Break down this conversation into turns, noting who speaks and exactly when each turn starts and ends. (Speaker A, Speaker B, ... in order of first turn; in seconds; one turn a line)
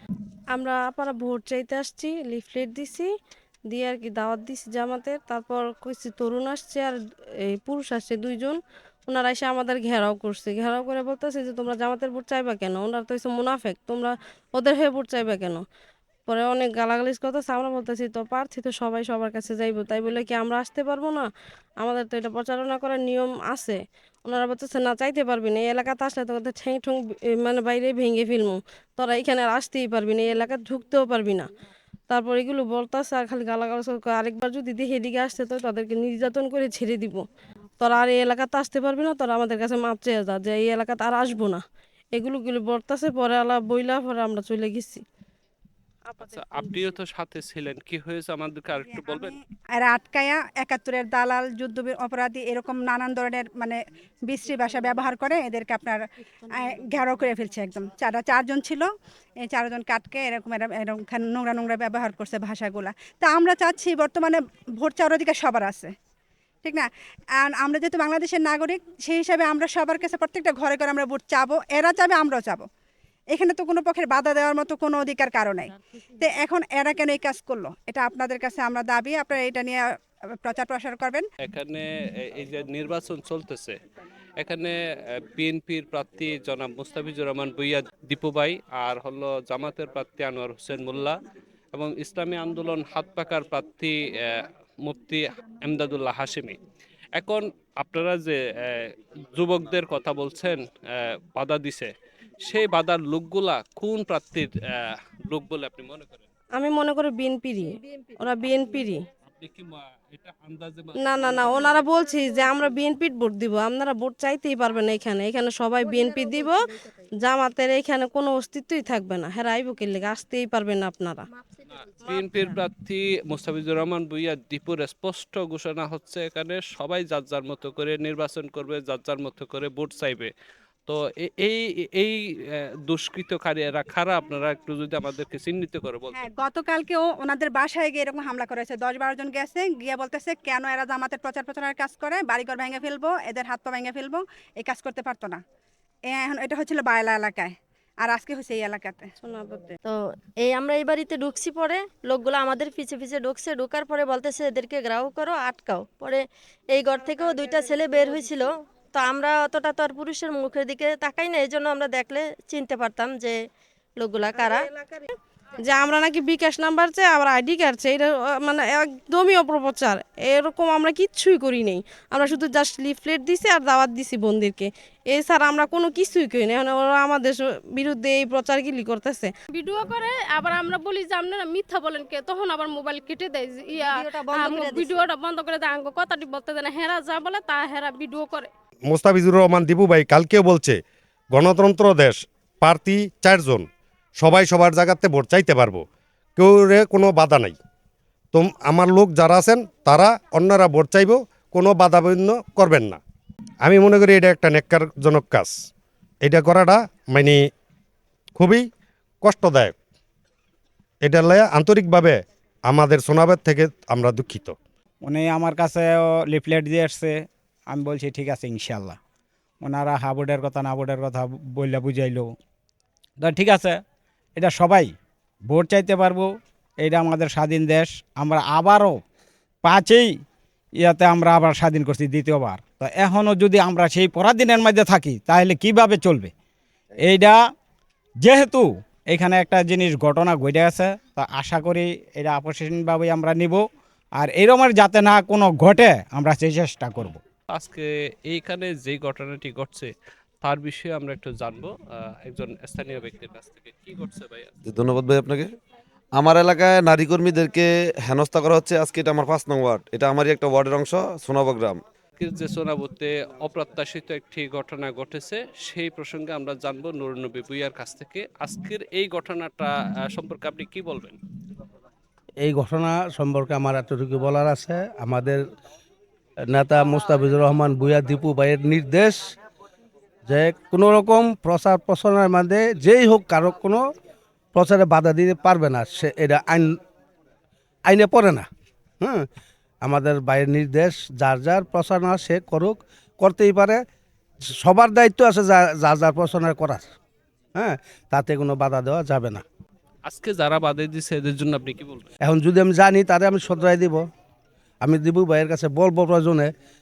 Speaker A: 0.5-3.1
Speaker A: 3.7-15.6
Speaker A: 16.3-21.2
Speaker A: 21.8-31.5
Speaker A: 32.1-37.2
Speaker A: 37.8-41.6
Speaker A: 42.1-45.0
Speaker A: 46.1-46.6
Speaker B: 46.2-49.3
Speaker C: 48.8-56.0
Speaker C: 56.6-58.9
Speaker C: 59.4-65.9
Speaker C: 66.6-72.6
Speaker C: 73.3-81.2
Speaker B: 81.4-83.8
Speaker B: 84.4-84.7
Speaker B: 85.3-91.2
Speaker B: 91.7-96.6
Speaker B: 97.2-100.6
Speaker B: 101.3-101.9
Speaker B: 102.4-106.3
Speaker A: 106.6-109.0
Speaker B: 109.3-111.7
Speaker A: 111.0-116.5
Speaker A: 117.2-121.2
Speaker B: 122.0-130.3
Speaker B: 130.9-136.2
Speaker C: 136.1-145.4
Speaker C: 146.1-149.1
Speaker A: 149.2-149.7
Speaker D: 149.8-163.4
Speaker D: 164.0-164.7
Speaker A: 164.4-165.1
Speaker A: 165.6-179.3
Speaker E: 179.5-188.5
Speaker D: 183.8-185.0
Speaker F: 188.9-190.8
Speaker F: 191.3-193.7
Speaker F: 194.2-195.8
Speaker F: 196.4-197.5
Speaker F: 198.3-203.0
Speaker F: 203.6-205.6
Speaker F: 206.2-207.4
Speaker F: 208.3-208.7
Speaker F: 209.2-209.7
Speaker F: 211.0-214.6
Speaker G: 215.0-215.8
Speaker G: 216.7-217.1
Speaker G: 217.7-218.9
Speaker G: 219.6-222.2
Speaker G: 223.2-223.7
Speaker F: 231.3-231.6
Speaker G: 232.6-233.2
Speaker G: 234.8-235.4
Speaker G: 240.4-243.2
Speaker G: 244.3-245.2
Speaker G: 246.9-247.2
Speaker B: 247.5-254.5
Speaker H: 254.7-255.5
Speaker H: 256.1-261.8
Speaker B: 262.2-271.2
Speaker I: 272.4-275.4
Speaker I: 276.5-279.3
Speaker I: 280.3-283.8
Speaker I: 284.5-286.7
Speaker I: 287.9-288.5
Speaker I: 289.0-289.2
Speaker I: 289.8-293.8
Speaker I: 294.6-296.9
Speaker I: 297.5-299.4
Speaker B: 300.1-302.1
Speaker I: 302.2-304.0
Speaker I: 304.8-306.5